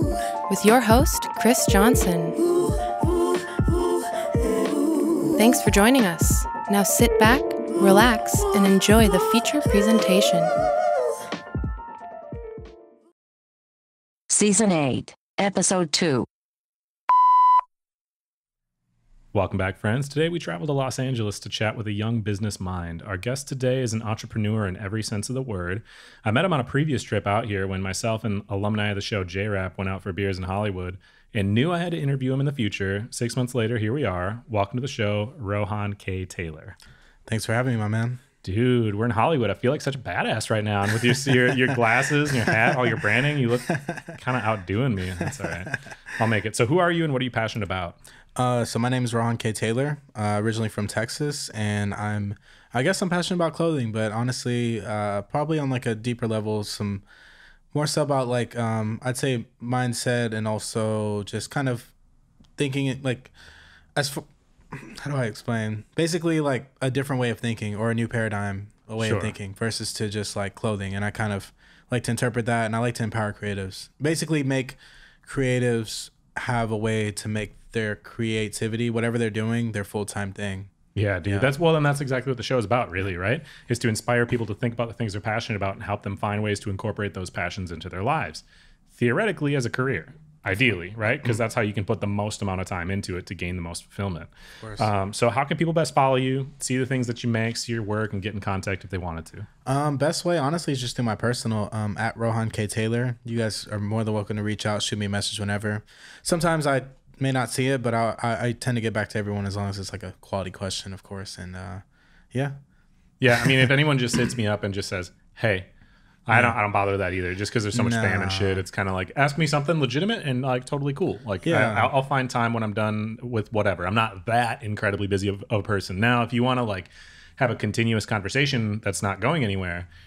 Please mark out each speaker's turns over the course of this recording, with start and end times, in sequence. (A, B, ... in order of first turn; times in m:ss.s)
0:00.5-0:02.4 A
0:05.4-0:10.6 A
0:14.3-0:16.3 B
0:19.3-0:36.8 C
0:37.3-0:38.2 D
0:38.4-0:48.0 C
0:41.1-0:41.7 D
0:42.5-0:42.7 D
0:43.7-0:44.1 D
0:45.2-0:45.7 D
0:48.4-0:57.0 D
0:57.7-1:01.9 D
1:02.6-1:03.3 D
1:04.0-1:20.7 D
1:09.0-1:09.4 C
1:21.0-1:39.5 C
1:21.2-1:21.5 D
1:34.6-1:34.9 D
1:39.6-1:52.6 D
1:53.2-1:55.7 C
1:56.3-2:09.9 C
1:56.3-1:56.6 D
1:57.7-1:58.6 D
2:01.4-2:01.9 D